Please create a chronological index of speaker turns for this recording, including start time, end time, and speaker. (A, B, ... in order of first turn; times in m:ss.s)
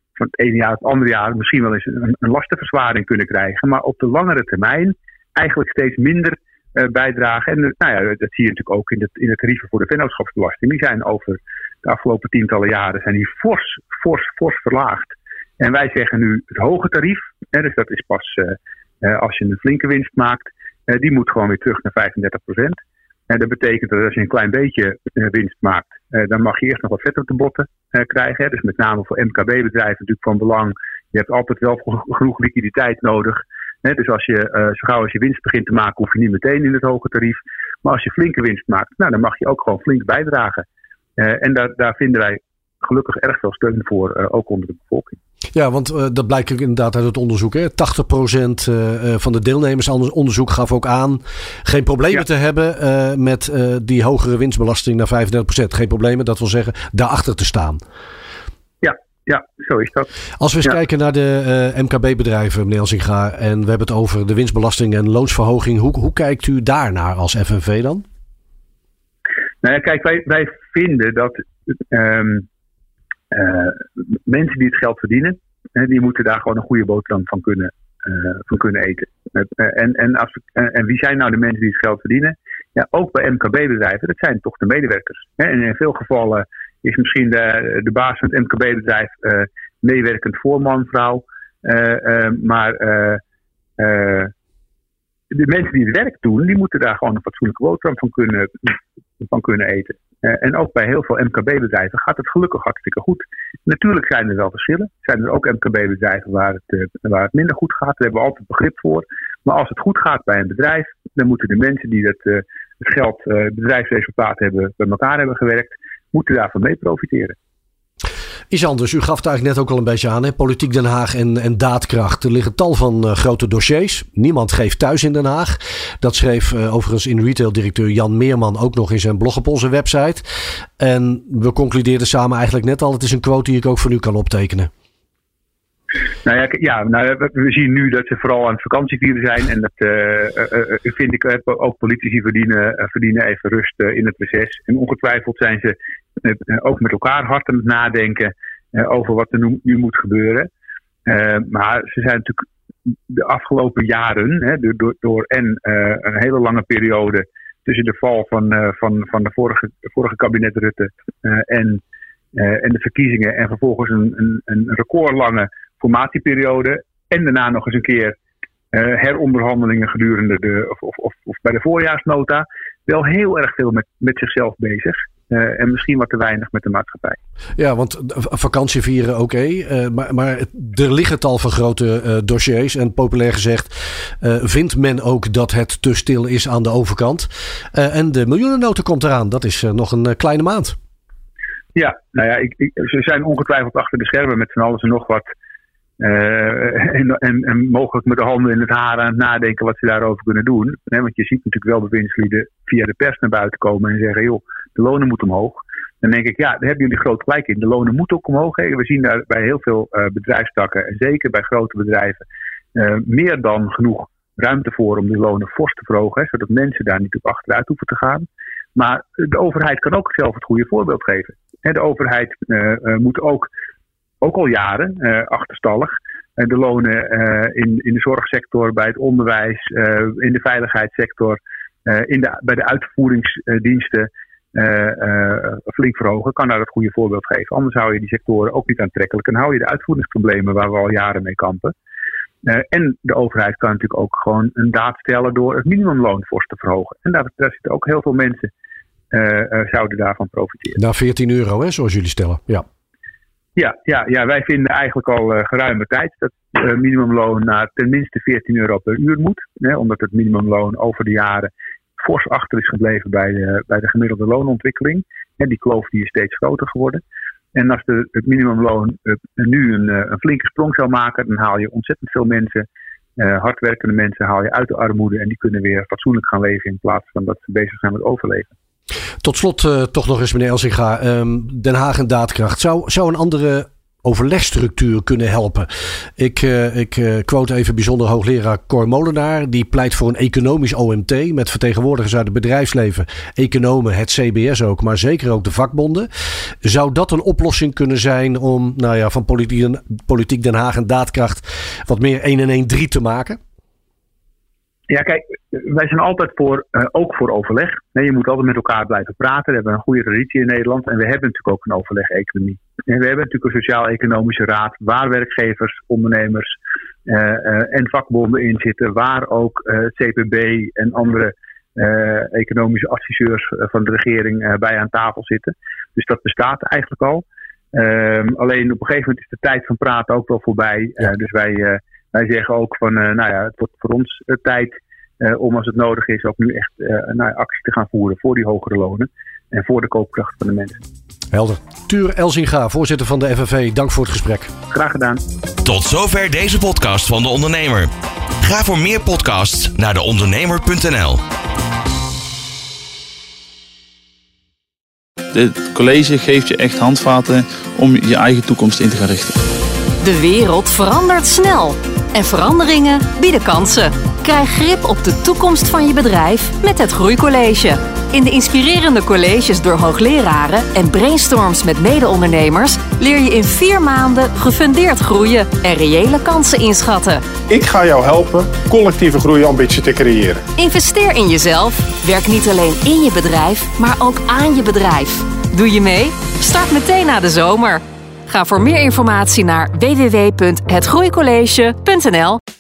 0:00.2-0:22.8 A
0:23.3-0:40.6 A
0:41.2-0:45.2 A
0:45.6-0:57.8 B
0:58.8-1:00.1 A
1:00.4-1:08.0 B
1:09.6-1:12.5 A
1:13.3-1:33.2 A
1:33.8-1:34.3 A
1:35.3-1:57.4 A
1:58.5-2:10.2 B
2:10.8-2:14.7 B
2:16.2-2:30.5 A
2:31.1-2:32.5 A
2:33.1-2:41.8 A
2:42.4-2:48.2 A
2:48.7-2:57.2 A
2:57.6-3:10.8 B
3:11.8-3:15.3 A
3:16.0-3:43.5 A
3:44.2-4:01.8 A
4:02.4-4:08.5 A
4:09.1-4:10.8 A
4:10.8-4:12.6 B
4:13.6-4:27.0 A
4:27.5-4:38.5 A
4:39.2-4:56.1 B
4:56.6-5:03.4 B
5:04.9-5:40.8 A
5:41.3-5:44.5 B
5:44.7-5:45.2 A
5:45.6-5:51.2 C
5:55.3-5:59.4 D
6:00.0-6:17.2 E
6:17.5-6:20.4 F
6:20.6-6:32.4 E